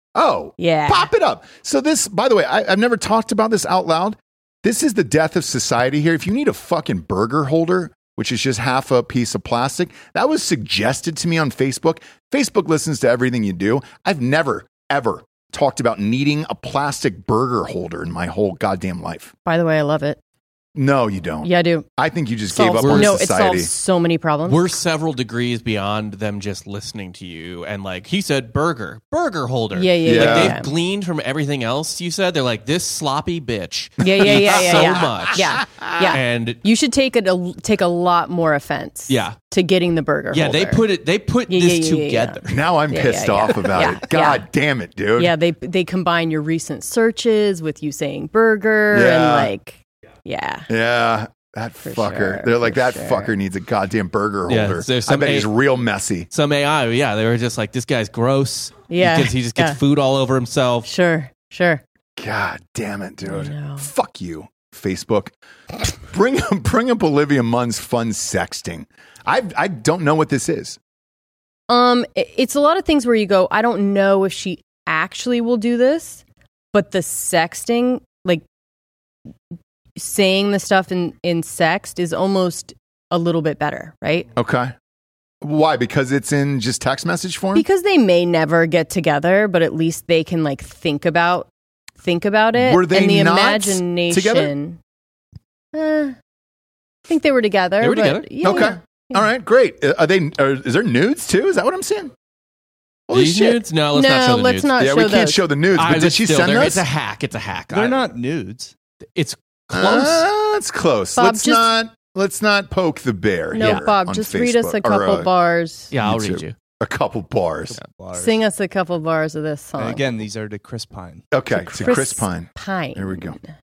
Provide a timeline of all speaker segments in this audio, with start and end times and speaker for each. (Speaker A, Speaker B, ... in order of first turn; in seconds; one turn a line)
Speaker A: 0.1-19.3
Speaker B: 0.6-1.1
Speaker B: 19.4-20.2
Speaker A: 20.7-23.7
Speaker B: 21.4-21.9
Speaker B: 22.5-24.7
Speaker C: 22.8-23.2
Speaker C: 24.5-36.6
Speaker B: 29.7-30.7
Speaker A: 30.1-30.6
Speaker B: 34.0-40.9
Speaker A: 34.1-35.9
Speaker C: 39.1-39.4
Speaker C: 40.3-42.6
Speaker B: 41.5-44.5
Speaker A: 42.5-45.3
Speaker B: 45.2-50.7
Speaker A: 48.9-49.5
Speaker A: 50.7-56.3
Speaker B: 51.8-53.3
Speaker C: 54.5-55.5
Speaker C: 56.3-60.9
Speaker B: 58.9-59.8
Speaker B: 60.8-61.8
Speaker A: 62.2-70.8
Speaker B: 63.2-63.9
Speaker B: 71.7-76.2
Speaker B: 76.7-78.4
Speaker B: 80.0-84.3
Speaker A: 84.3-84.7
Speaker A: 85.4-87.6
Speaker B: 87.5-94.8
Speaker A: 92.5-94.5
Speaker B: 95.7-96.2
Speaker B: 97.1-99.2
Speaker C: 97.8-98.4
Speaker A: 98.4-102.1
Speaker A: 103.1-103.6
Speaker C: 103.1-104.8
Speaker B: 103.9-105.4
Speaker A: 104.8-106.8
Speaker C: 105.7-108.1
Speaker D: 107.7-108.7
Speaker C: 109.2-110.2
Speaker A: 109.7-115.3
Speaker B: 111.2-111.7
Speaker B: 113.5-115.9
Speaker C: 113.6-113.9
Speaker C: 115.9-116.5
Speaker A: 116.0-117.8
Speaker D: 117.7-118.4
Speaker B: 118.1-120.0
Speaker D: 119.8-121.2
Speaker A: 121.3-123.4
Speaker B: 121.5-123.4